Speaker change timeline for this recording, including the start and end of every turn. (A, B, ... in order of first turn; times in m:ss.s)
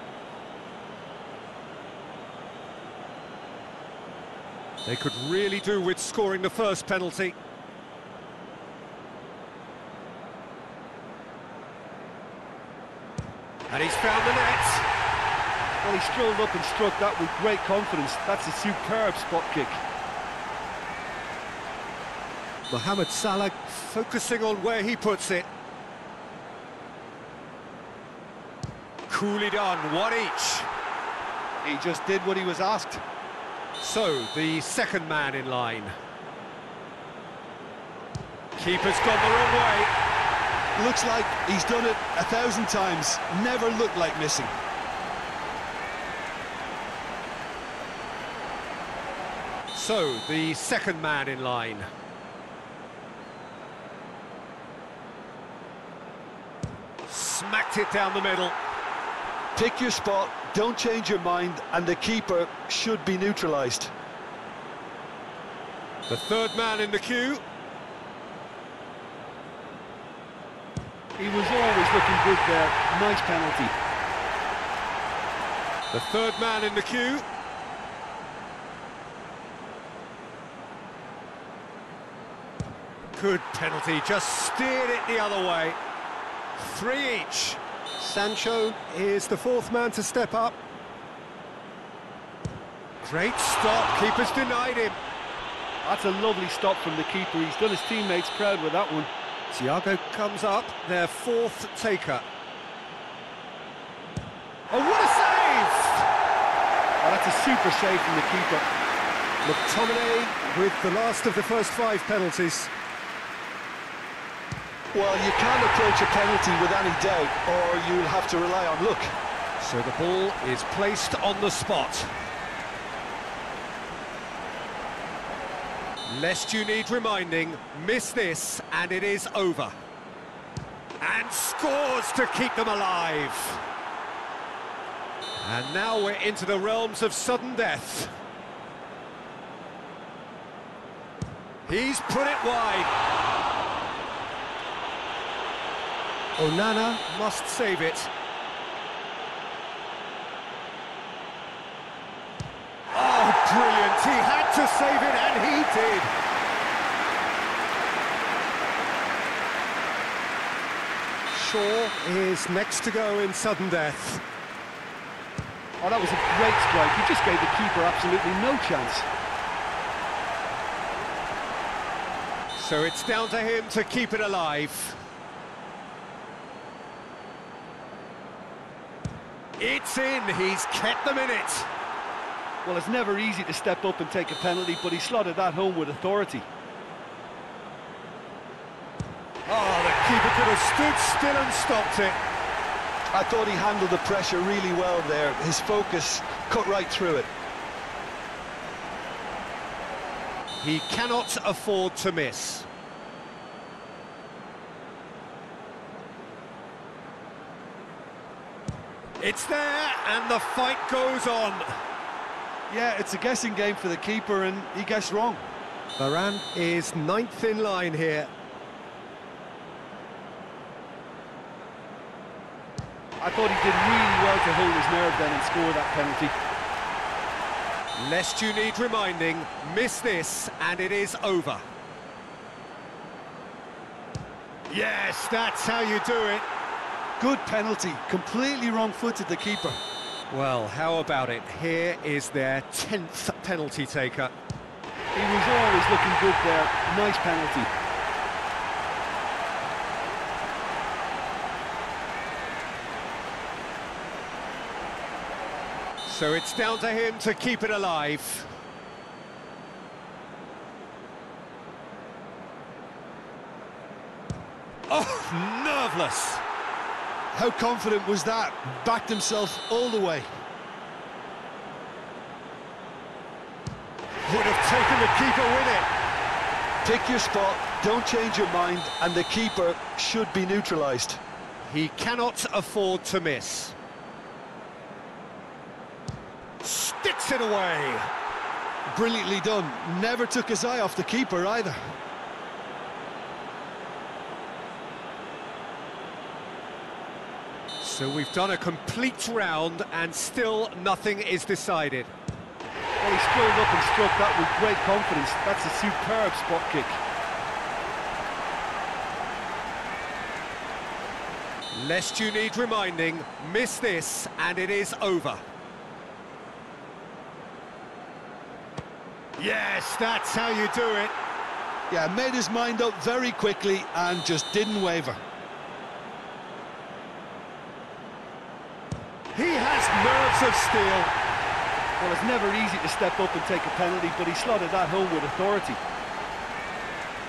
0:04.8-0:07.3 A
0:13.7-0:14.9 A
0:15.8-0:19.8 B
0:22.7-0:25.5 A
0:29.1-0:30.7 A
0:31.6-0:33.0 C
0:33.8-0:36.0 A
0:38.6-0:39.9 A
0:40.8-0:44.5 C
0:49.7-0:51.9 A
0:57.1-0:58.6 A
0:59.5-1:03.9 C
1:06.1-1:07.4 A
1:11.2-1:13.7 B
1:15.9-1:17.2 A
1:23.1-1:25.8 A
1:26.6-1:30.6 A
1:33.0-1:35.0 A
1:35.8-1:39.1 B
1:39.5-1:42.2 A
1:44.7-1:46.1 A
1:47.0-1:48.6 B
1:49.4-1:52.7 A
1:54.9-1:59.1 C
1:59.6-2:02.1 A
2:06.0-2:09.7 A
2:11.0-2:13.6 A
2:15.4-2:18.1 A
2:21.7-2:22.9 A
2:26.4-2:28.1 A
2:32.9-2:36.1 A
2:41.3-2:44.2 A
2:45.8-2:49.0 B
2:52.6-2:55.0 A
2:59.6-3:01.7 A
3:02.6-3:06.4 B
3:09.5-3:12.2 A
3:13.1-3:17.3 C
3:20.6-3:22.7 A
3:29.2-3:31.7 A
3:32.7-3:35.4 C
3:36.0-3:38.3 A
3:43.2-3:46.3 B
3:48.0-3:51.6 A
3:54.7-3:56.4 A
3:57.2-3:59.8 C
4:00.3-4:04.3 A
4:05.1-4:07.7 B
4:16.0-4:18.5 A
4:24.9-4:26.4 A
4:27.3-4:30.3 C
4:34.2-4:35.9 A
4:36.8-4:41.2 C
4:41.6-4:43.7 A
4:46.6-4:48.1 A
4:48.9-4:51.8 C
4:57.8-5:02.1 A
5:03.0-5:07.0 B
5:11.7-5:15.4 A
5:19.4-5:21.1 A
5:21.9-5:25.2 C
5:29.3-5:31.1 A
5:32.0-5:35.8 B